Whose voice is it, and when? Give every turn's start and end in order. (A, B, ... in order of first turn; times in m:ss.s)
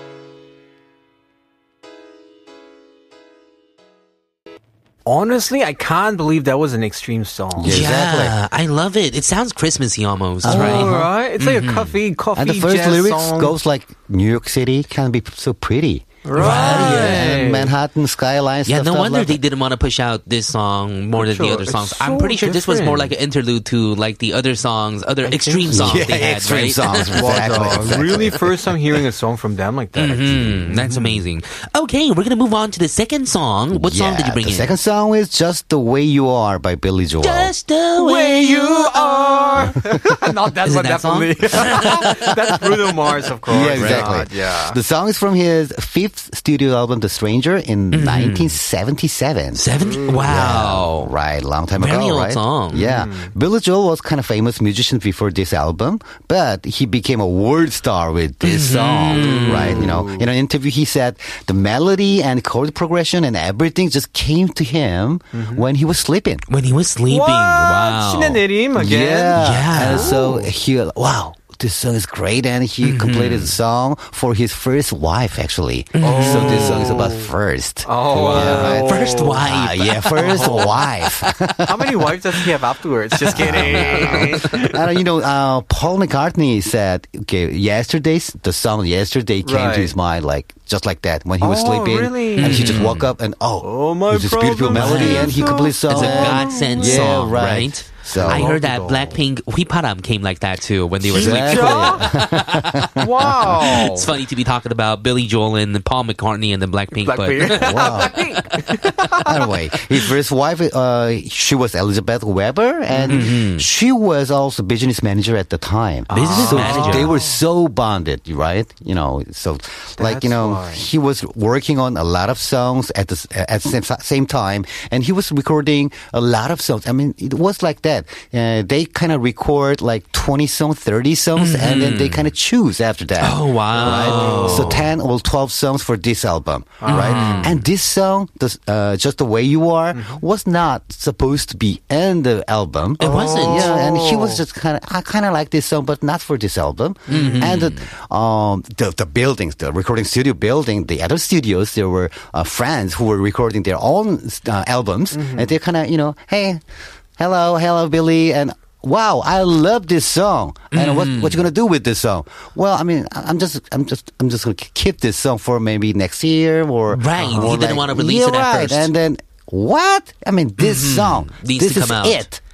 0:05.1-0:07.8 A
0:07.6-0:08.4 B
0:07.7-0:12.0 C
0:10.4-0:11.1 B
0:10.4-0:13.6 A
0:12.4-0:19.4 B
0:16.2-0:17.7 A
0:16.4-0:17.4 C
0:18.7-0:27.9 C
0:21.2-0:23.1 A
0:25.2-0:26.0 A
0:25.7-0:28.5 B
0:27.1-0:31.2 A
0:30.0-0:34.7 C
0:33.7-0:37.5 B
0:37.2-0:39.7 C
0:38.0-0:44.8 A
0:40.6-0:42.6 C
0:43.5-0:49.6 B
0:43.6-0:44.1 C
0:47.9-0:48.6 C
0:49.6-0:51.1 C
0:50.2-1:06.4 B
0:51.8-0:52.8 C
0:52.7-0:53.3 A
0:58.4-0:59.9 C
0:59.1-1:00.3 A
1:05.3-1:05.7 A
1:06.5-1:08.4 C
1:07.1-1:10.5 A
1:08.8-1:22.2 B
1:09.4-1:10.2 C
1:12.8-1:13.5 C
1:16.0-1:17.0 C
1:16.0-1:17.3 A
1:17.9-1:19.4 A
1:18.1-1:20.6 C
1:20.2-1:20.9 A
1:21.6-1:24.8 A
1:23.3-1:38.5 B
1:23.3-1:24.4 C
1:29.4-1:30.0 A
1:31.4-1:33.0 A
1:32.4-1:33.1 C
1:33.6-1:37.3 A
1:34.7-1:43.0 C
1:38.1-1:39.2 A
1:41.1-1:43.6 B
1:41.1-1:42.2 A
1:43.0-1:44.1 A
1:43.6-1:48.9 C
1:46.9-1:49.5 A
1:47.5-1:48.2 B
1:49.1-2:36.6 B
1:52.9-1:53.3 A
1:53.1-1:53.7 C
1:56.1-1:57.4 A
1:56.1-1:57.1 C
2:00.0-2:00.8 A
2:11.4-2:12.3 C
2:13.2-2:14.8 C
2:13.8-2:14.8 A
2:16.8-2:17.6 A
2:16.9-2:17.6 C
2:19.9-2:20.2 A
2:23.0-2:23.7 C
2:23.0-2:24.4 A
2:27.1-2:27.6 A
2:27.1-2:27.8 C
2:35.1-2:35.5 A
2:37.2-2:52.4 B
2:40.7-2:41.4 C
2:46.9-2:48.9 C
2:47.2-2:47.6 A
2:50.6-2:52.3 C